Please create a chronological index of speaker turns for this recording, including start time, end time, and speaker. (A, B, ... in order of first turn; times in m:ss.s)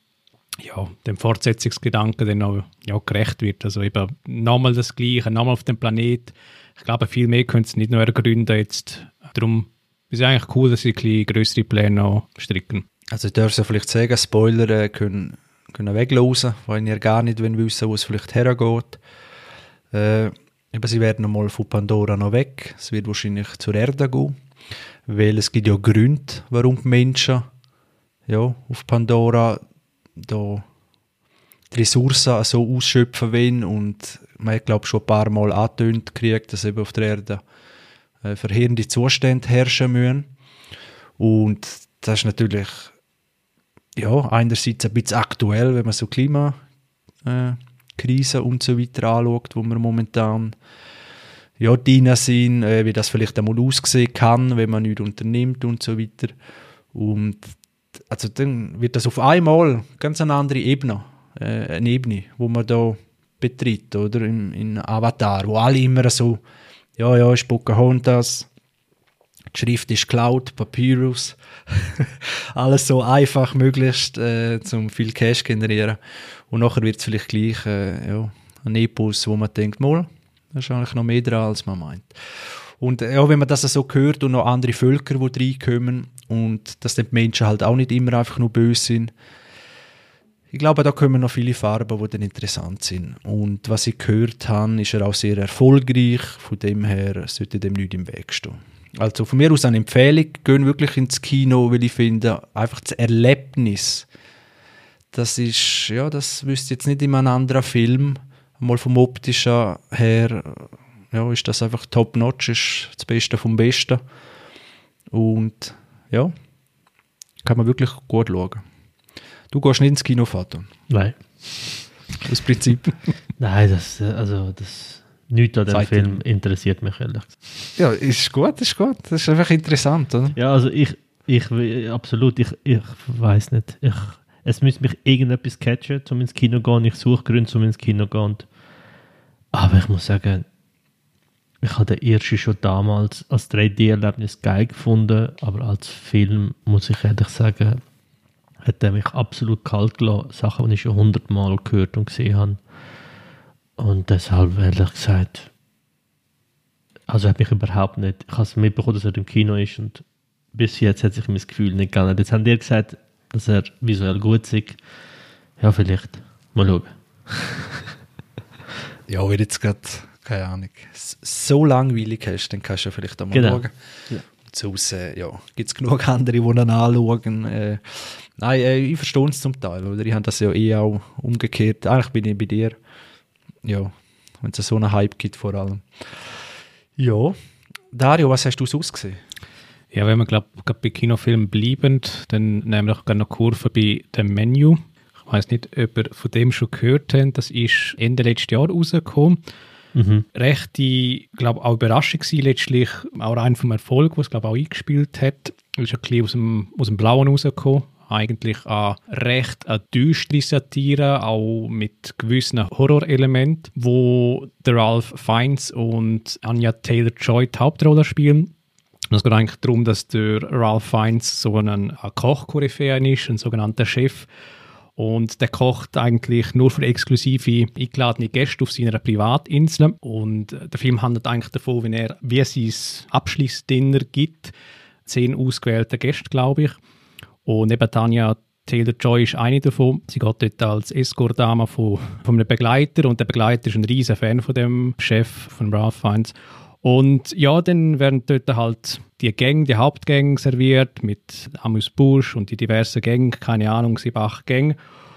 0:00.6-0:12.8 A
0:13.1-0:19.0 B
0:19.9-0:24.4 B
0:25.1-0:27.5 B
0:28.3-0:29.6 B
0:30.2-0:30.6 B
0:31.7-0:37.4 B
0:38.2-0:40.3 B
0:41.2-0:42.9 B
0:44.0-0:46.6 B
0:47.2-0:50.6 B
0:51.6-0:56.4 B
0:56.9-1:06.4 B
1:07.0-1:08.5 B
1:09.5-1:29.1 B
1:30.5-1:44.1 B
1:45.1-1:54.0 B
1:55.1-1:56.3 B
1:57.4-1:58.6 B
1:59.5-2:00.7 B
2:00.9-2:01.9 C
2:02.2-2:02.9 B
2:03.4-2:07.4 C
2:05.7-2:06.2 B
2:07.8-2:10.4 B
2:10.3-2:18.5 C
2:19.5-2:20.4 C
2:21.6-2:27.8 C
2:28.6-2:32.6 C
2:33.8-2:35.5 C
2:37.1-2:44.8 C
2:45.6-2:47.9 C
2:49.1-2:53.7 B
2:53.3-2:54.2 C
2:54.4-3:02.8 B
3:03.6-3:06.4 B
3:07.0-3:07.4 B
3:07.9-3:09.2 B
3:09.9-3:19.4 A
3:19.9-3:20.2 C
3:20.3-3:38.5 A
3:39.1-3:44.3 A
3:45.0-3:54.5 A
3:55.0-3:56.8 A
3:57.4-4:14.8 A